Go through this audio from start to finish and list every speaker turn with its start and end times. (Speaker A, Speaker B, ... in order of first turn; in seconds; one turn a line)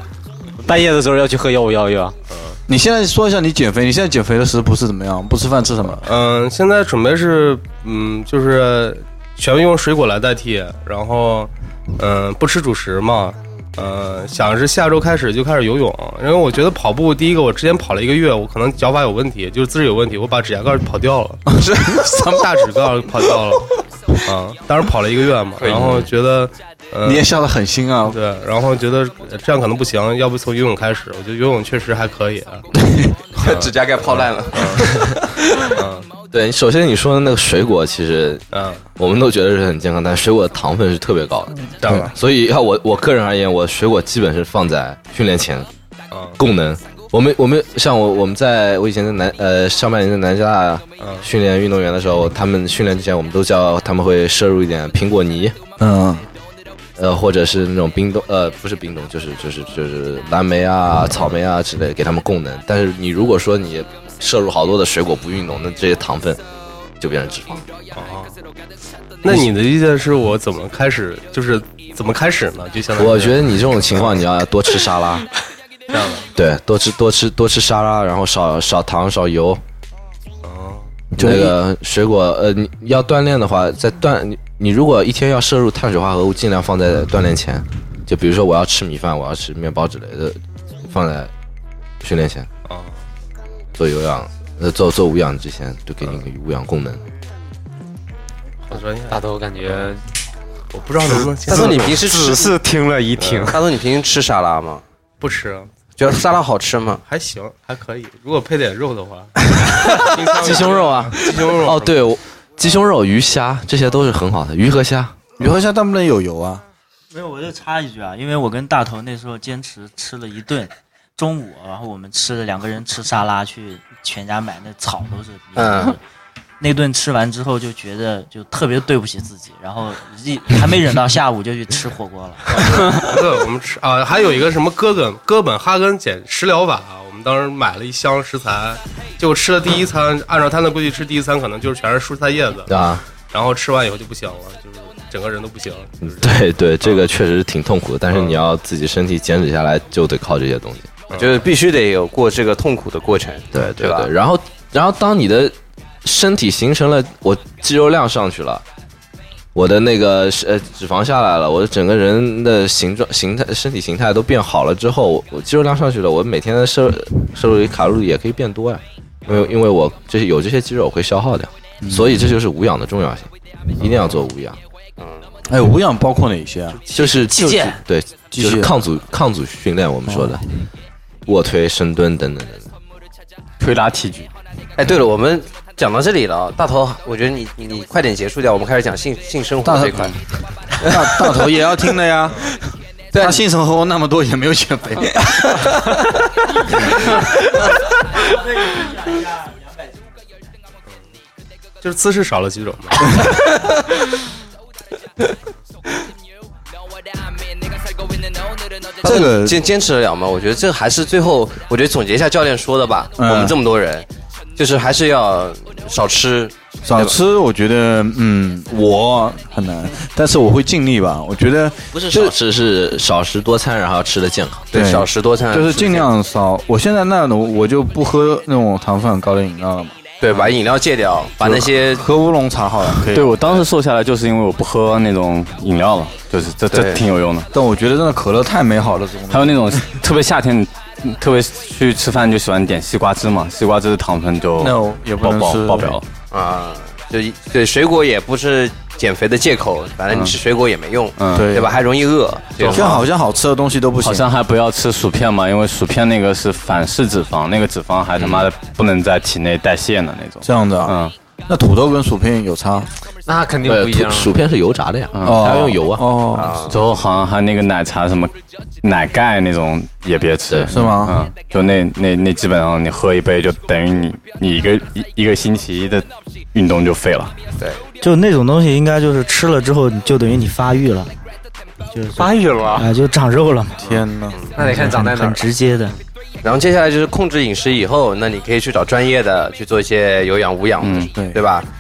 Speaker A: 0.6-2.2
Speaker B: 2.3-2.6
Speaker C: 2.7-6.1
Speaker B: 6.0-21.4
Speaker C: 21.5-22.6
Speaker B: 22.2-23.7
Speaker B: 24.3-27.3
Speaker D: 25.7-26.0
Speaker C: 27.0-28.2
Speaker B: 28.1-32.6
Speaker E: 33.4-35.2
Speaker B: 33.4-34.9
Speaker B: 35.8-36.1
Speaker D: 36.3-38.5
Speaker B: 38.5-38.8
Speaker D: 39.0-45.7
Speaker C: 41.8-42.1
Speaker B: 41.8-42.1
Speaker B: 46.1-46.4
Speaker D: 46.4-55.5
Speaker B: 51.0-51.3
Speaker C: 55.8-56.2
Speaker D: 57.0-66.4
Speaker D: 67.0-67.7
Speaker B: 67.9-68.3
Speaker B: 69.2-74.2
Speaker D: 73.0-75.3
Speaker B: 75.9-76.3
Speaker D: 76.3-79.6
Speaker B: 80.4-80.9
Speaker C: 81.2-81.6
Speaker D: 81.2-91.3
Speaker D: 92.0-92.5
Speaker B: 92.7-93.0
Speaker D: 93.8-97.0
Speaker B: 98.7-99.9
Speaker A: 99.1-100.0
Speaker B: 100.7-102.1
Speaker A: 101.1-103.6
Speaker E: 101.5-102.5
Speaker B: 103.2-103.5
Speaker E: 103.5-104.8
Speaker B: 105.2-105.7
Speaker E: 106.0-107.0
Speaker B: 107.1-111.9
Speaker D: 110.4-115.2
Speaker C: 115.4-116.6
Speaker F: 117.1-126.0
Speaker E: 125.6-126.0
Speaker F: 126.6-132.6
Speaker B: 132.6-142.7
Speaker D: 142.7-143.0
Speaker B: 143.3-147.1
Speaker D: 146.1-150.9
Speaker B: 148.1-148.4
Speaker B: 151.1-151.4
Speaker E: 151.1-154.1
Speaker D: 153.5-158.6
Speaker D: 159.6-174.6
Speaker C: 171.8-172.3
Speaker E: 175.0-175.3
Speaker C: 175.5-176.8
Speaker D: 176.9-180.4
Speaker A: 177.3-177.8
Speaker C: 178.3-178.7
Speaker C: 180.1-180.4
Speaker D: 181.3-182.7
Speaker G: 183.6-184.3
Speaker E: 184.8-190.2
Speaker C: 189.6-190.2
Speaker E: 190.8-191.4
Speaker C: 190.8-192.6
Speaker E: 193.1-193.4
Speaker C: 193.2-195.8
Speaker B: 201.8-203.2
Speaker C: 209.0-209.6
Speaker E: 209.0-217.2
Speaker C: 213.2-213.6
Speaker C: 216.8-222.3
Speaker D: 221.9-224.7
Speaker E: 224.7-226.1
Speaker C: 224.7-229.9
Speaker E: 230.2-232.1
Speaker C: 231.4-233.6
Speaker G: 233.1-237.5
Speaker E: 236.7-237.0
Speaker C: 237.5-239.9
Speaker G: 239.3-246.1
Speaker C: 244.6-246.0
Speaker E: 246.3-253.1
Speaker G: 251.2-251.6
Speaker C: 251.3-251.8
Speaker C: 252.7-254.3
Speaker G: 254.0-261.1
Speaker D: 258.2-258.5
Speaker C: 260.4-262.9
Speaker A: 263.3-264.4
Speaker D: 263.6-266.1
Speaker G: 265.1-265.5
Speaker C: 265.2-266.6
Speaker E: 266.3-266.8
Speaker G: 266.7-277.3
Speaker C: 270.7-271.2
Speaker F: 278.0-281.1
Speaker F: 281.9-283.9
Speaker A: 282.2-282.9
Speaker C: 283.8-284.4
Speaker E: 284.3-284.6
Speaker A: 284.6-285.4
Speaker F: 284.6-286.0
Speaker E: 286.4-291.7
Speaker G: 290.8-291.1
Speaker C: 291.1-291.4